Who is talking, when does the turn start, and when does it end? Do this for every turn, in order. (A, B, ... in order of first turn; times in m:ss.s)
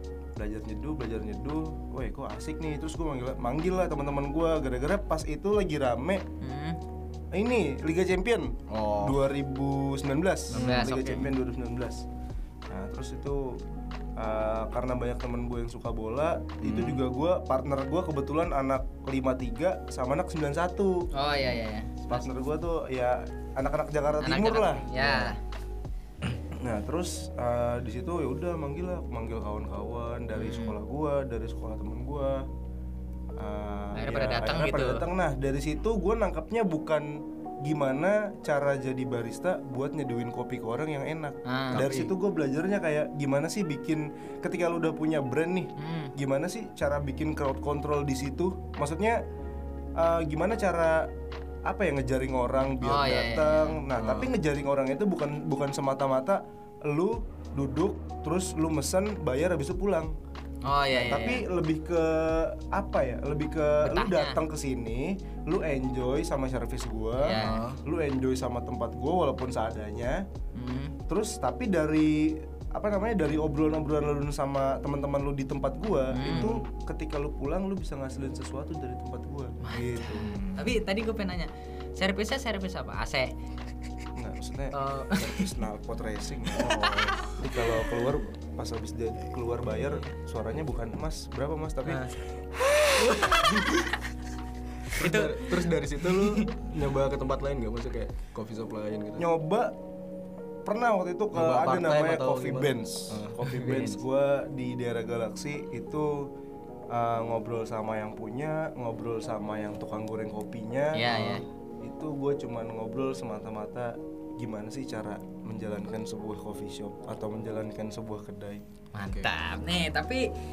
0:00.4-0:06.2 A
0:06.4-0:06.8 B
0:07.3-0:12.0 A
0:08.7-0:09.2 C
0:10.5-0:10.9 C
0:10.5-0:11.3 B
0:12.7-0:13.6 A
0:14.2-0:21.1 A
0:16.6-0:17.0 C
0:21.1-0:22.2 B
0:22.1-0:25.3 A
0:24.2-0:25.4 B
0:26.5-0:32.5 A
0:30.3-0:30.8 B
0:33.4-0:49.2 A
0:34.0-0:35.0 B
0:41.4-0:42.1 B
0:41.7-0:42.0 C
0:45.8-0:46.1 B
0:50.0-0:51.1 A
0:51.6-1:00.1 A
0:52.8-0:54.3 B
1:00.6-1:01.4 B
1:00.9-1:10.2 A
1:03.8-1:04.4 B
1:07.2-1:07.6 B
1:07.4-1:07.8 C
1:10.5-1:10.9 B
1:11.1-1:20.3 A
1:16.1-1:16.6 B
1:19.6-1:23.3 B
1:20.2-1:20.7 C
1:24.2-1:32.0 A
1:24.7-1:25.6 B
1:26.6-1:27.2 C
1:26.6-1:27.9 B
1:31.8-1:32.2 B
1:32.9-1:33.9 B
1:33.1-1:33.7 C
1:34.9-1:39.2 C
1:35.0-1:36.6 B
1:39.2-1:39.8 A
1:40.6-1:46.3 A
1:41.3-1:44.0 C
1:46.9-1:51.0 A
1:50.9-1:51.4 B
1:51.0-1:51.4 C
1:51.8-1:58.6 A
1:58.9-2:00.3 B
1:59.0-1:59.3 C